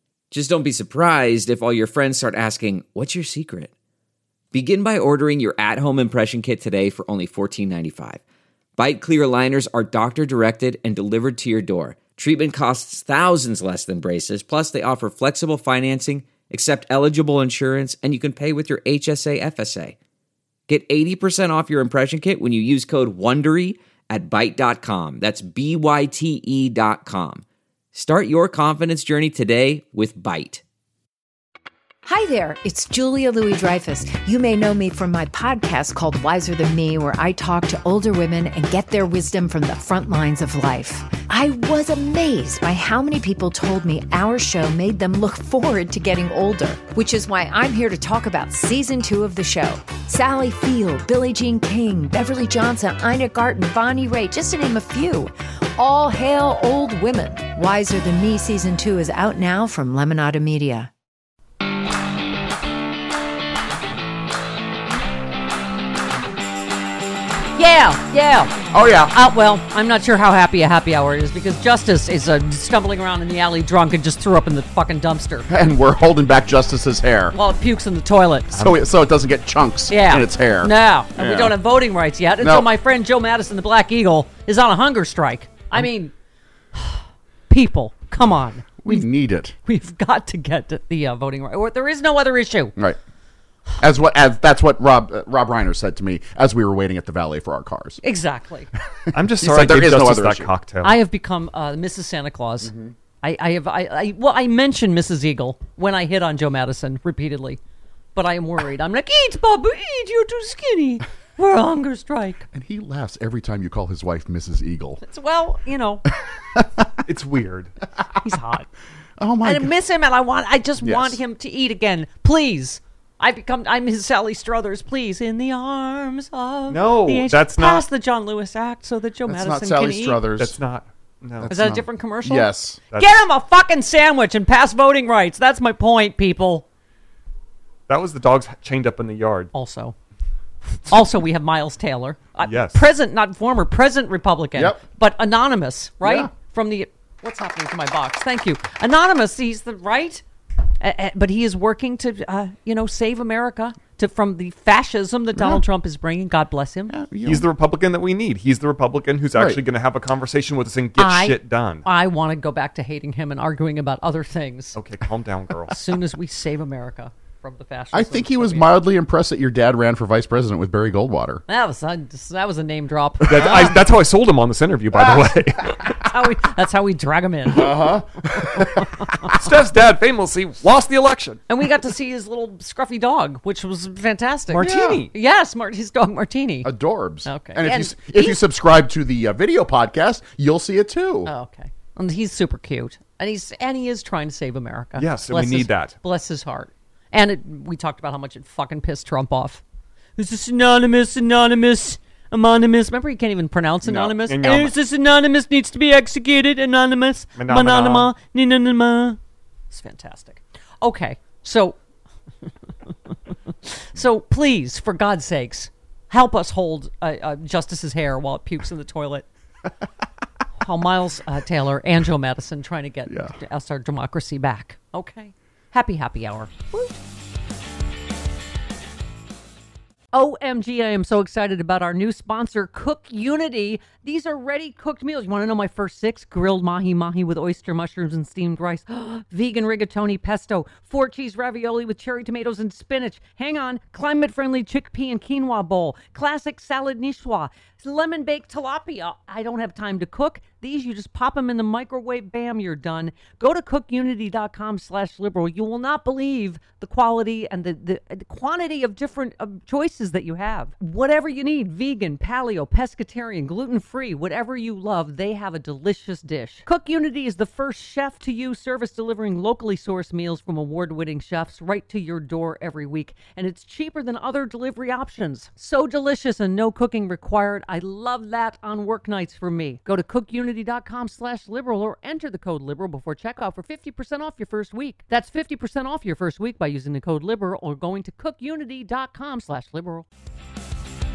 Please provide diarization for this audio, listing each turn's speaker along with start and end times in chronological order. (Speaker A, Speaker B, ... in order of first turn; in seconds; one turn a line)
Speaker A: 0.3-3.7
Speaker A: 4.5-8.2
Speaker A: 8.8-20.0
Speaker A: 20.7-30.6
Speaker B: 32.0-60.9
Speaker C: 67.5-68.6
Speaker D: 68.7-69.1
Speaker C: 69.1-75.5
Speaker D: 75.5-77.3
Speaker C: 77.3-78.6
Speaker E: 78.5-78.8
Speaker D: 78.6-81.6
Speaker C: 79.9-86.1
Speaker D: 82.4-82.7
Speaker C: 86.7-89.0
Speaker D: 88.8-89.5
Speaker C: 89.6-92.8
Speaker D: 93.8-98.0
Speaker C: 98.0-98.7
Speaker E: 99.1-101.0
Speaker D: 99.3-100.5
Speaker C: 100.8-107.6
Speaker D: 102.6-102.9
Speaker C: 108.1-112.5
Speaker D: 112.5-115.0
Speaker C: 115.0-116.0
Speaker D: 116.5-116.9
Speaker E: 117.0-117.7
Speaker C: 118.2-118.7
Speaker D: 119.2-119.7
Speaker C: 119.4-130.2
Speaker D: 120.8-121.2
Speaker E: 126.7-127.8
Speaker D: 129.3-130.6
Speaker E: 130.4-131.5
Speaker D: 131.4-132.8
Speaker C: 131.5-136.7
Speaker E: 137.9-139.5
Speaker C: 139.5-139.9
Speaker C: 140.9-150.2
Speaker E: 142.4-142.8
Speaker D: 144.6-144.8
Speaker D: 146.0-146.3
Speaker C: 150.8-156.9
Speaker D: 155.3-155.6
Speaker D: 156.9-157.5
Speaker E: 157.2-161.8
Speaker D: 159.3-159.6
Speaker C: 160.9-164.8
Speaker E: 164.8-165.8
Speaker C: 165.7-168.7
Speaker D: 167.9-171.4
Speaker C: 171.5-173.7
Speaker E: 173.3-175.9
Speaker D: 174.9-175.3
Speaker C: 176.0-177.9
Speaker D: 177.5-178.8
Speaker C: 178.6-179.3
Speaker E: 179.3-181.4
Speaker C: 181.5-186.7
Speaker D: 184.5-185.0
Speaker D: 186.6-191.3
Speaker C: 187.2-188.4
Speaker C: 191.2-199.6
Speaker E: 195.0-195.9
Speaker C: 200.2-209.2
Speaker D: 203.8-204.2
Speaker E: 204.3-204.7
Speaker E: 207.4-208.1
Speaker C: 209.7-211.8
Speaker C: 213.6-219.3
Speaker C: 220.6-227.0
Speaker D: 223.1-223.3
Speaker C: 230.1-290.1